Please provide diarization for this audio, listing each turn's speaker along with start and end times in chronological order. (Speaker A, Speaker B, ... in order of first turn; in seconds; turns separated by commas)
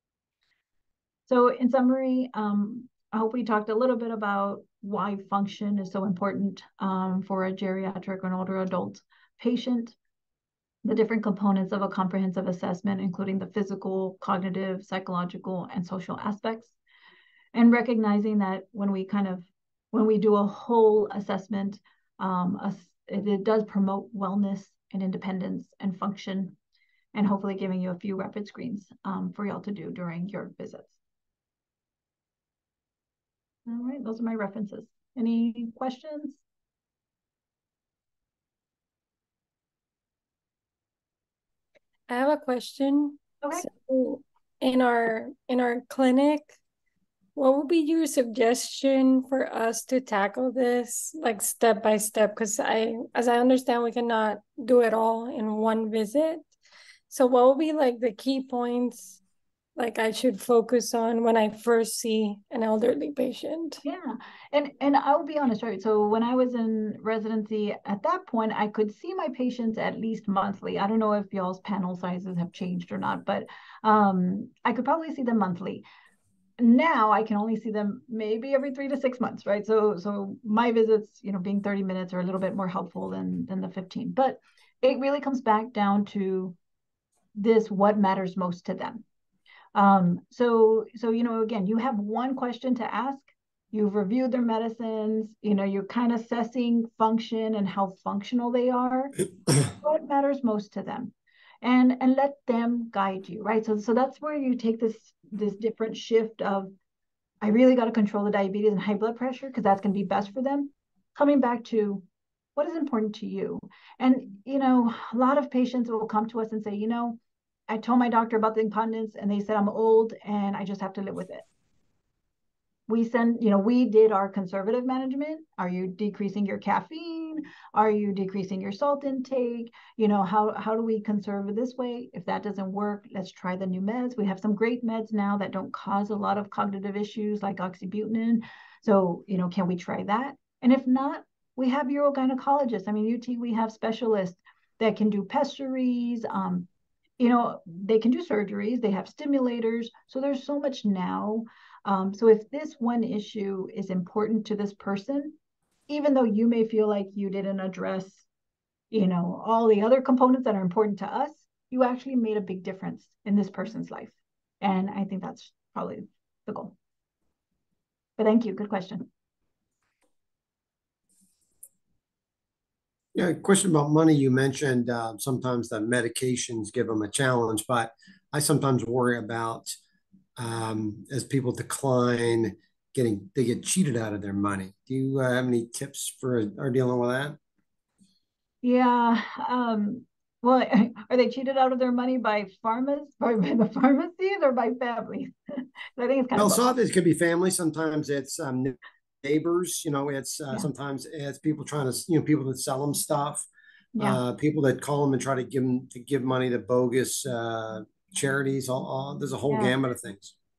Speaker A: 1.3-9.9, Speaker A: 10.8-16.7, Speaker A: 17.5-26.6, Speaker A: 27.1-30.9, Speaker A: 33.7-36.4, Speaker B: 42.1-46.5, Speaker A: 43.4-43.7, Speaker B: 47.4-56.5, Speaker B: 57.1-59.2, Speaker B: 59.8-63.8, Speaker A: 63.8-75.8, Speaker A: 76.6-86.6, Speaker A: 87.3-89.0, Speaker A: 89.7-106.7, Speaker A: 107.4-112.0, Speaker A: 112.6-117.2, Speaker A: 117.7-121.5, Speaker A: 122.9-146.7, Speaker A: 147.2-155.4, Speaker A: 155.9-158.3, Speaker A: 158.9-166.7, Speaker A: 168.2-169.1, Speaker C: 173.1-179.7, Speaker C: 180.4-187.4, Speaker A: 188.6-195.3, Speaker A: 196.0-196.6, Speaker C: 196.4-203.4, Speaker A: 203.9-204.2, Speaker C: 204.0-210.3, Speaker A: 209.5-209.7